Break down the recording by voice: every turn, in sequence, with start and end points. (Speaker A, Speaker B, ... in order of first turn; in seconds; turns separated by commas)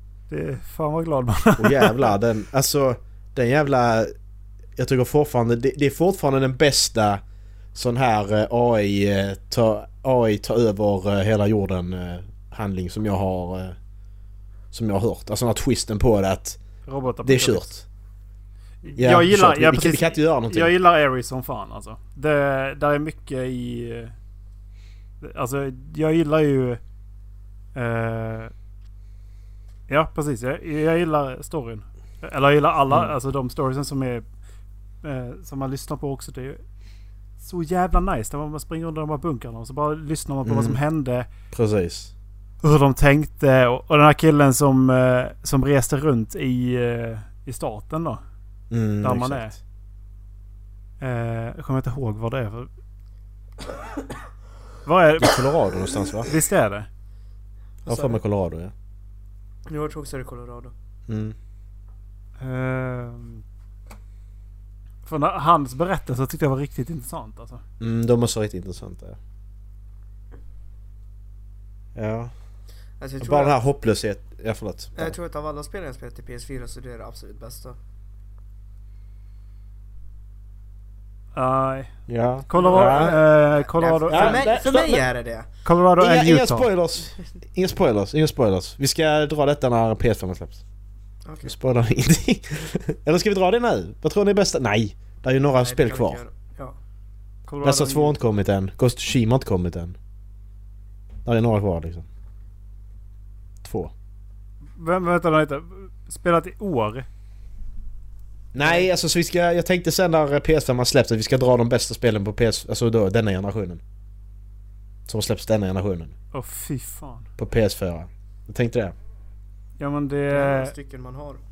Speaker A: 0.3-2.1, Speaker B: 1.6-4.1, Speaker B: 4.8-7.2, Speaker B: 7.7-13.8, Speaker B: 14.7-16.6, Speaker A: 16.9-17.8, Speaker B: 17.2-17.8, Speaker A: 18.8-24.1, Speaker B: 19.0-20.7, Speaker A: 25.2-26.8, Speaker A: 27.7-28.5, Speaker A: 29.9-34.2, Speaker A: 35.0-36.6, Speaker A: 37.4-41.3, Speaker B: 40.4-40.8, Speaker B: 41.5-42.1, Speaker A: 42.6-48.2, Speaker B: 48.7-49.5, Speaker A: 49.0-49.5, Speaker A: 51.0-52.7, Speaker A: 54.8-55.4, Speaker B: 55.2-56.3, Speaker A: 56.2-56.9, Speaker C: 57.8-58.2, Speaker B: 57.9-58.7, Speaker C: 59.7-60.7, Speaker B: 61.1-61.4, Speaker A: 62.4-63.4, Speaker A: 65.0-67.6, Speaker B: 67.8-69.2, Speaker B: 72.0-72.3, Speaker C: 73.0-73.6, Speaker B: 73.2-75.2, Speaker C: 75.0-77.8, Speaker A: 81.3-81.9, Speaker B: 82.1-83.2, Speaker A: 82.5-84.4, Speaker C: 82.5-85.5, Speaker B: 84.1-85.0, Speaker A: 85.6-86.7, Speaker B: 86.0-90.6, Speaker C: 91.2-91.5, Speaker B: 91.4-96.2, Speaker C: 95.6-96.8, Speaker A: 97.5-98.2, Speaker B: 97.6-100.0, Speaker B: 101.2-102.0, Speaker B: 103.6-103.9, Speaker A: 104.8-107.0, Speaker B: 108.5-113.8, Speaker B: 115.1-116.1, Speaker A: 116.3-117.3, Speaker B: 117.4-119.0, Speaker A: 119.8-120.7, Speaker C: 120.3-121.4